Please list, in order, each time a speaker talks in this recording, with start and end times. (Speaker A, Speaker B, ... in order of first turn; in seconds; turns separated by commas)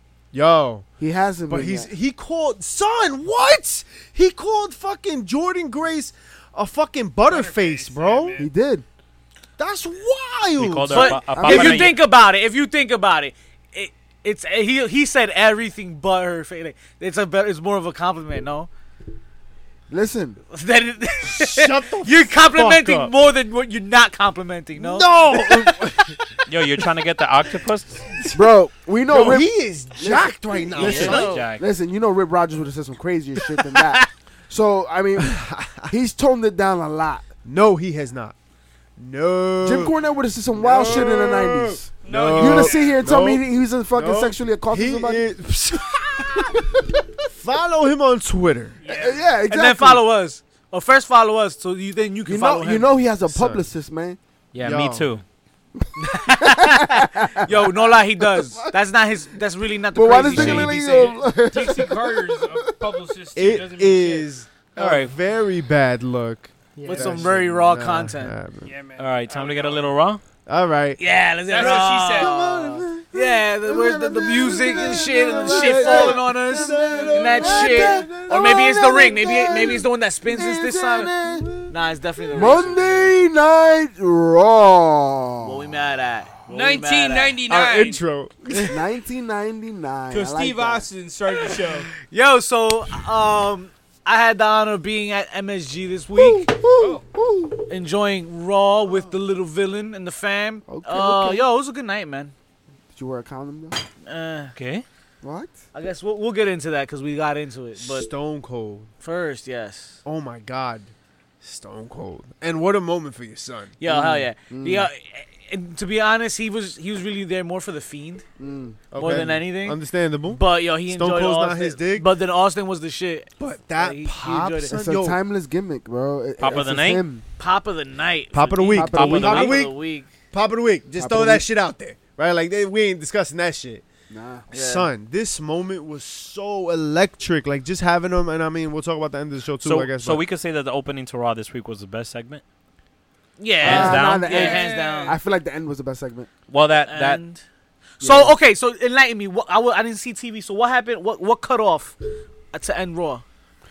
Speaker A: 0.3-0.9, Speaker B: 1.0-1.9, Speaker A: 1.5-8.4, Speaker C: 7.2-8.5, Speaker B: 8.4-8.8, Speaker A: 9.6-11.2, Speaker D: 10.6-12.0, Speaker E: 10.9-18.7, Speaker B: 11.3-11.9, Speaker B: 19.9-20.4, Speaker E: 20.5-25.8, Speaker A: 21.3-23.1, Speaker A: 24.8-26.2, Speaker D: 26.5-28.1, Speaker B: 28.3-37.3, Speaker A: 29.1-31.4, Speaker D: 30.7-31.6, Speaker E: 30.8-31.5, Speaker A: 35.2-35.9, Speaker A: 37.4-38.4, Speaker A: 39.0-39.9, Speaker B: 39.6-45.3, Speaker A: 40.5-46.6, Speaker C: 42.0-43.0, Speaker A: 47.3-48.8, Speaker C: 48.8-49.2, Speaker B: 48.9-50.0, Speaker E: 49.5-52.9, Speaker B: 52.2-54.2, Speaker A: 53.3-53.6, Speaker D: 54.5-55.2, Speaker A: 54.6-55.1, Speaker B: 55.8-57.7, Speaker E: 56.0-61.2, Speaker B: 58.2-58.7, Speaker B: 59.9-62.8, Speaker D: 60.3-60.7, Speaker C: 60.8-64.3, Speaker A: 63.3-68.7, Speaker D: 64.8-65.1, Speaker C: 66.8-67.2, Speaker E: 66.8-68.3, Speaker C: 68.6-69.9, Speaker D: 69.0-70.2, Speaker A: 70.5-71.0, Speaker E: 71.0-81.1, Speaker C: 71.5-72.3, Speaker A: 71.6-72.9, Speaker B: 72.4-81.6, Speaker A: 74.2-78.7, Speaker A: 81.2-81.7, Speaker E: 81.7-83.2, Speaker B: 82.3-85.6, Speaker E: 85.4-87.4, Speaker C: 86.5-88.0, Speaker A: 87.5-88.8, Speaker B: 88.7-90.8, Speaker C: 90.1-91.9, Speaker E: 92.1-96.5, Speaker B: 96.2-97.6, Speaker E: 97.7-102.3, Speaker B: 100.7-101.5, Speaker B: 102.9-103.8, Speaker E: 104.0-104.5, Speaker D: 104.5-104.8, Speaker B: 105.2-105.5, Speaker E: 105.7-108.1, Speaker A: 107.8-108.9, Speaker E: 109.0-110.0, Speaker A: 110.0-113.7, Speaker E: 113.8-118.2, Speaker B: 113.9-114.9, Speaker B: 118.4-118.8, Speaker A: 118.9-122.1, Speaker E: 118.9-124.7, Speaker A: 123.4-125.2, Speaker B: 124.7-127.2, Speaker D: 126.4-127.0, Speaker E: 127.4-130.1, Speaker A: 128.3-129.7, Speaker B: 128.7-129.5, Speaker D: 128.8-129.7, Speaker A: 130.3-133.8, Speaker B: 131.0-131.4, Speaker B: 134.1-134.4, Speaker E: 134.5-134.9, Speaker A: 134.5-140.2, Speaker D: 139.6-142.4, Speaker E: 143.4-145.2, Speaker D: 143.6-144.6, Speaker B: 143.6-146.3, Speaker C: 144.3-145.2, Speaker D: 146.5-147.3, Speaker E: 146.8-147.4, Speaker E: 148.0-152.0, Speaker B: 148.0-148.3, Speaker E: 152.5-153.2